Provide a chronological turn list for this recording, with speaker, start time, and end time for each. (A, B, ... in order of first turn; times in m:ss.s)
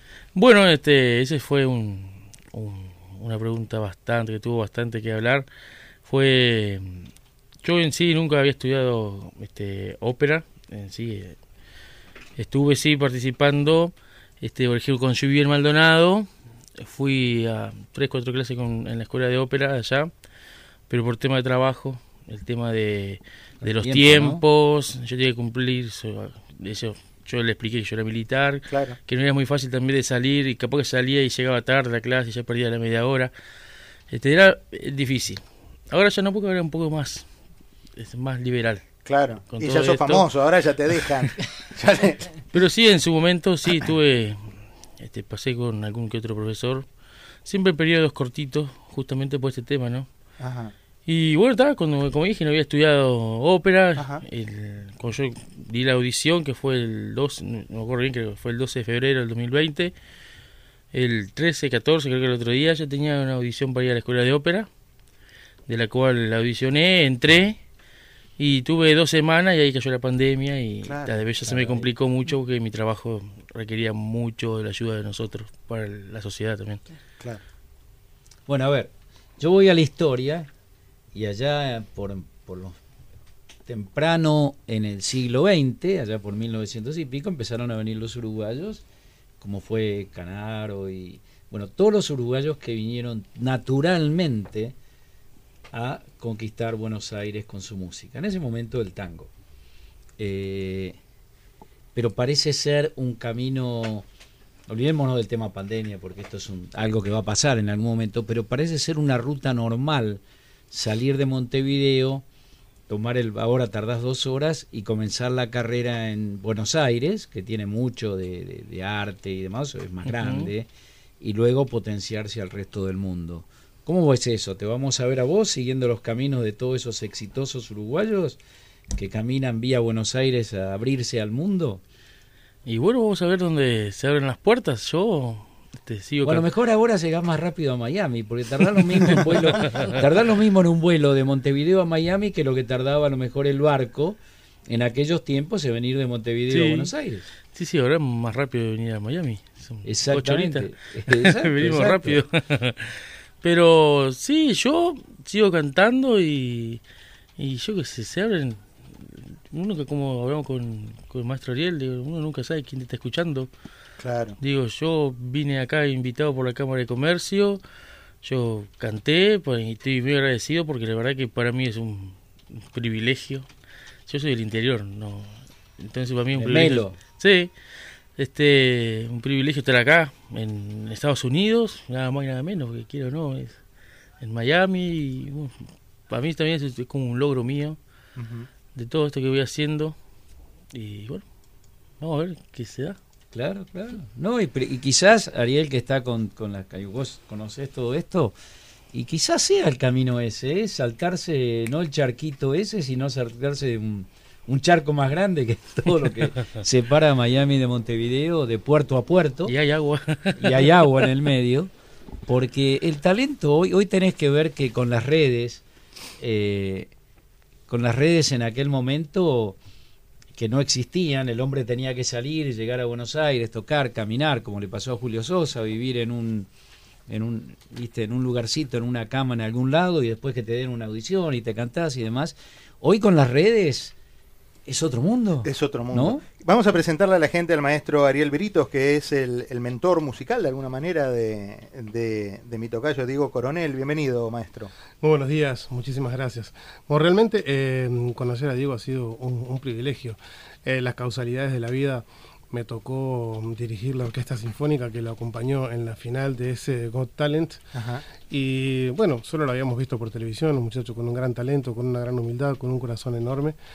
0:00.4-0:05.5 A
0:06.0-0:07.1 A
0:07.6-0:11.4 A
0:12.4-0:20.1 A
0:20.9-0:33.3 A
0:23.6-0:24.4 B
0:28.7-0:29.0 C
0:34.1-0:37.3 A
0:38.0-0:38.8 A
0:39.1-0:42.4 C
0:39.5-0:40.3 A
0:42.5-0:46.9 A
0:47.4-0:50.1 A
0:50.4-0:50.7 C
0:51.1-1:00.0 A
0:54.0-0:54.2 C
1:00.9-1:04.7 A
1:05.7-1:07.6 A
1:08.4-1:16.8 A
1:10.9-1:11.1 C
1:11.4-1:11.9 B
1:18.5-1:20.5 B
1:21.1-1:22.8 B
1:23.7-1:28.8 B
1:29.4-1:34.8 B
1:35.7-1:39.3 B
1:40.2-1:41.0 B
1:42.0-1:44.0 B
1:44.7-1:52.2 B
1:52.9-2:00.7 B
2:00.1-2:00.5 A
2:01.2-2:08.4 B
2:08.9-2:11.8 B
2:12.6-2:16.5 A
2:16.2-2:27.3 B
2:19.5-2:20.0 A
2:26.5-2:26.9 A
2:27.5-2:36.8 A
2:29.8-2:32.2 B
2:37.4-2:43.5 A
2:44.0-2:44.4 C
2:44.4-2:47.6 A
2:48.2-2:53.5 A
2:54.1-2:57.5 A
2:56.3-2:57.0 B
2:58.2-3:03.6 A
3:04.2-3:05.6 A
3:06.1-3:07.8 A
3:08.2-3:08.5 C
3:08.7-3:10.0 A
3:10.7-3:11.2 A
3:12.0-3:13.0 A
3:13.3-3:18.3 B
3:18.9-3:29.6 B
3:29.5-3:30.7 A
3:30.4-3:31.7 B
3:32.3-3:35.6 B
3:36.2-3:36.9 B
3:37.7-3:39.6 B
3:40.3-3:46.5 B
3:47.1-3:53.9 B
3:54.7-3:56.2 B
3:55.4-4:04.7 C
4:05.0-4:17.7 D
4:17.7-4:18.0 C
4:18.3-4:23.6 D